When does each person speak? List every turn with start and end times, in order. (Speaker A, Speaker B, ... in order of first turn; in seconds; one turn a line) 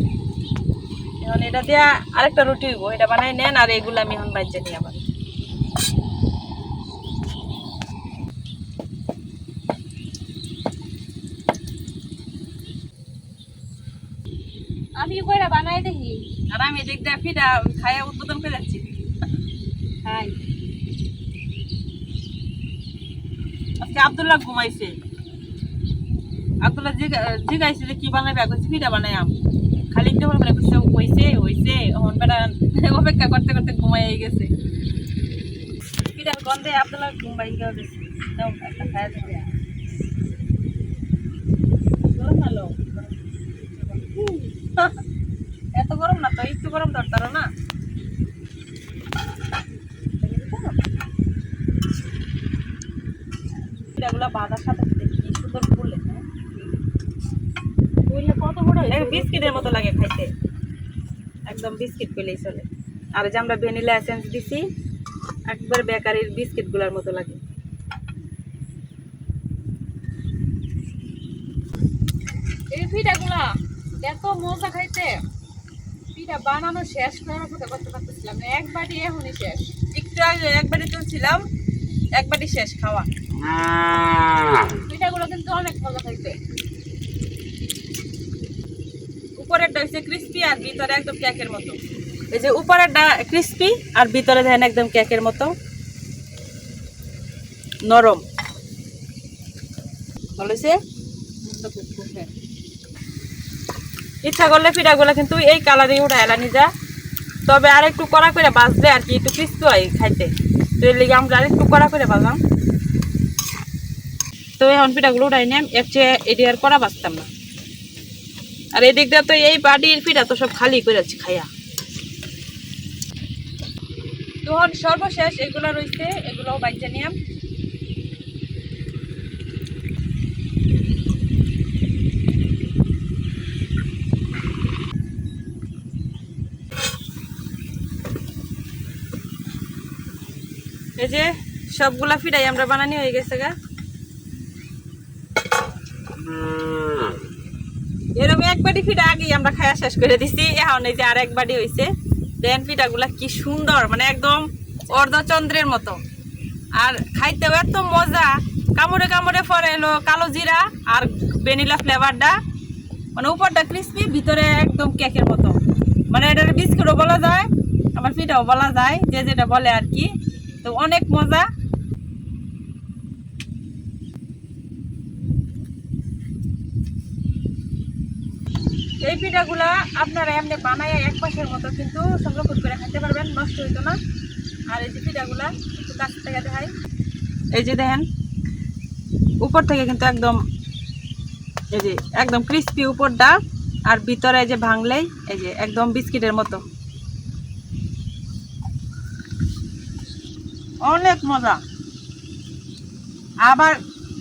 Speaker A: 1.2-5.0
Speaker B: 15.0-16.2
Speaker A: 16.5-18.8
Speaker B: 20.0-20.3
Speaker A: 23.8-24.9
Speaker A: 26.6-29.4
Speaker A: 29.9-34.5
Speaker A: 36.0-39.5
Speaker A: 42.1-42.9
Speaker A: 44.0-45.0
Speaker A: 45.7-47.5
Speaker A: 50.2-50.7
Speaker A: 53.9-56.2
Speaker B: 58.1-59.6
Speaker A: 58.8-60.3
Speaker A: 61.5-64.6
Speaker A: 65.5-67.4
Speaker B: 72.7-73.5
Speaker B: 74.0-75.2
Speaker B: 76.2-79.7
Speaker A: 79.8-81.4
Speaker A: 82.1-83.1
Speaker B: 84.9-86.3
Speaker A: 89.3-91.8
Speaker A: 92.3-95.5
Speaker A: 97.8-98.2
Speaker A: 100.3-100.8
Speaker A: 101.5-102.2
Speaker A: 104.2-106.7
Speaker A: 107.5-112.4
Speaker A: 114.6-117.3
Speaker A: 118.7-121.5
Speaker A: 124.4-127.2
Speaker A: 141.0-143.5
Speaker A: 148.2-156.0
Speaker A: 156.8-162.4
Speaker A: 163.2-165.6
Speaker A: 166.1-170.1
Speaker A: 170.6-171.5
Speaker A: 179.0-184.0
Speaker A: 184.7-186.7
Speaker A: 187.5-188.1
Speaker A: 189.4-190.4
Speaker A: 191.7-196.6
Speaker A: 200.8-201.6
Speaker A: 203.4-203.8